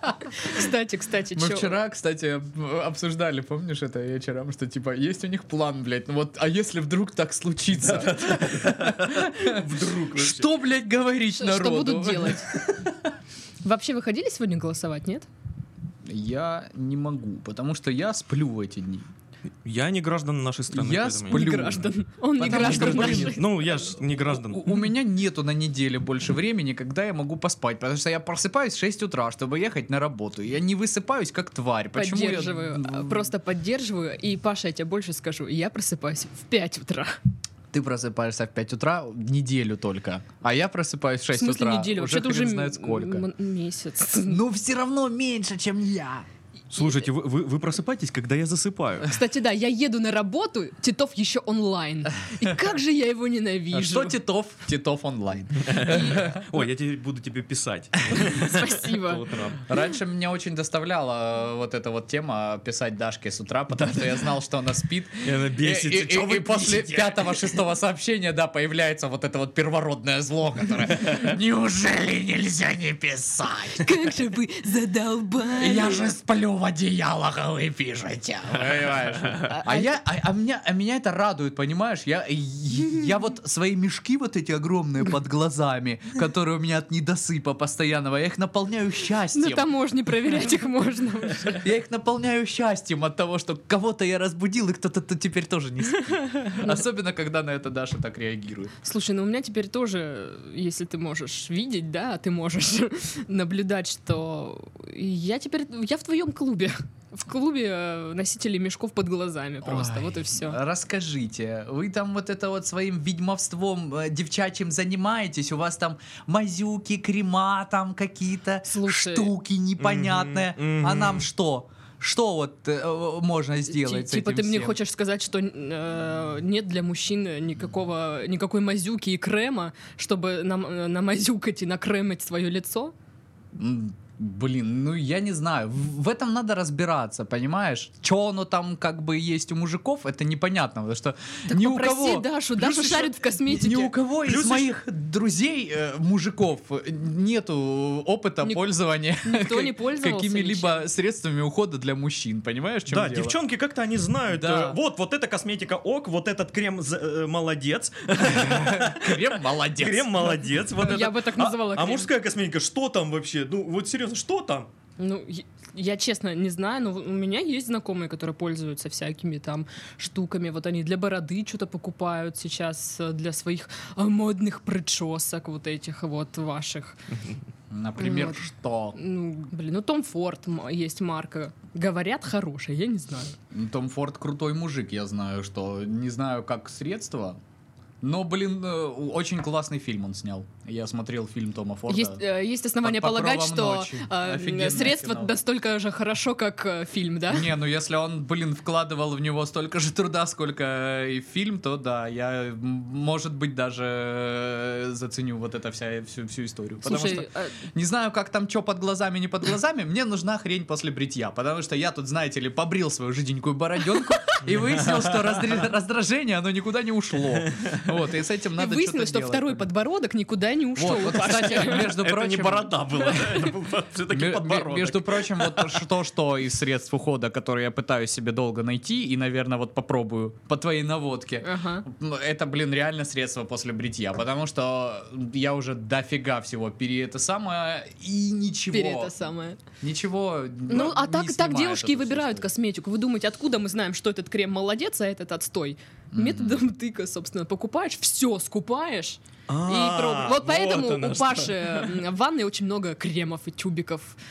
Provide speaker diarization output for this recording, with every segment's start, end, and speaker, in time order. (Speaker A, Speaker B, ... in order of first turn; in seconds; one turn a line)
Speaker A: 0.3-1.8
Speaker B: 1.3-12.5
Speaker C: 7.8-10.5
Speaker A: 11.3-12.5
Speaker A: 13.6-15.3
Speaker B: 16.0-19.1
Speaker C: 19.6-21.8
Speaker B: 20.7-33.3
Speaker A: 21.3-23.4
Speaker C: 22.4-24.8
Speaker A: 31.9-37.2
Speaker B: 37.7-43.2
Speaker A: 41.3-44.4
Speaker B: 44.2-46.2
Speaker C: 46.7-49.1
Speaker A: 49.0-54.2
Speaker B: 53.7-56.4
Speaker C: 55.6-59.6
Speaker A: 55.8-56.2
Speaker A: 58.3-59.3
Speaker B: 59.6-73.9
Speaker C: 63.7-64.2
Speaker C: 65.2-67.4
Speaker A: 73.8-76.1
Speaker B: 75.5-89.7
Speaker A: 79.5-79.9
Speaker A: 89.3-91.6
Speaker B: 91.5-98.7
Speaker A: 96.1-96.8
Speaker A: 98.8-110.6
Speaker B: 109.6-124.8
Speaker A: 118.7-119.3
Speaker C: 119.8-121.3
Speaker A: 123.7-132.9
Speaker B: 133.6-153.3
Speaker A: 141.5-143.9
Speaker C: 144.2-144.7
Speaker A: 148.4-148.7
Speaker A: 149.2-150.8
Speaker C: 152.9-164.7
Speaker B: 154.3-154.8
Speaker B: 158.2-160.4
Speaker A: 160.8-162.1
Speaker A: 165.0-177.0
Speaker B: 177.7-179.0
Speaker A: 178.0-178.4
Speaker A: 178.9-183.3
Speaker B: 183.5-187.4
Speaker B: 188.0-192.2
Speaker A: 191.9-197.5
Speaker B: 192.8-195.3
Speaker B: 197.3-219.6
Speaker A: 206.8-207.6
Speaker C: 214.5-215.4
Speaker C: 217.4-217.9
Speaker A: 218.6-221.9
Speaker B: 220.8-223.2
Speaker C: 221.0-225.8
Speaker A: 222.9-223.5
Speaker B: 224.1-239.1
Speaker A: 231.4-231.8
Speaker A: 238.7-239.6
Speaker B: 239.8-242.5
Speaker A: 240.7-254.2
Speaker B: 246.1-246.6
Speaker C: 249.5-252.0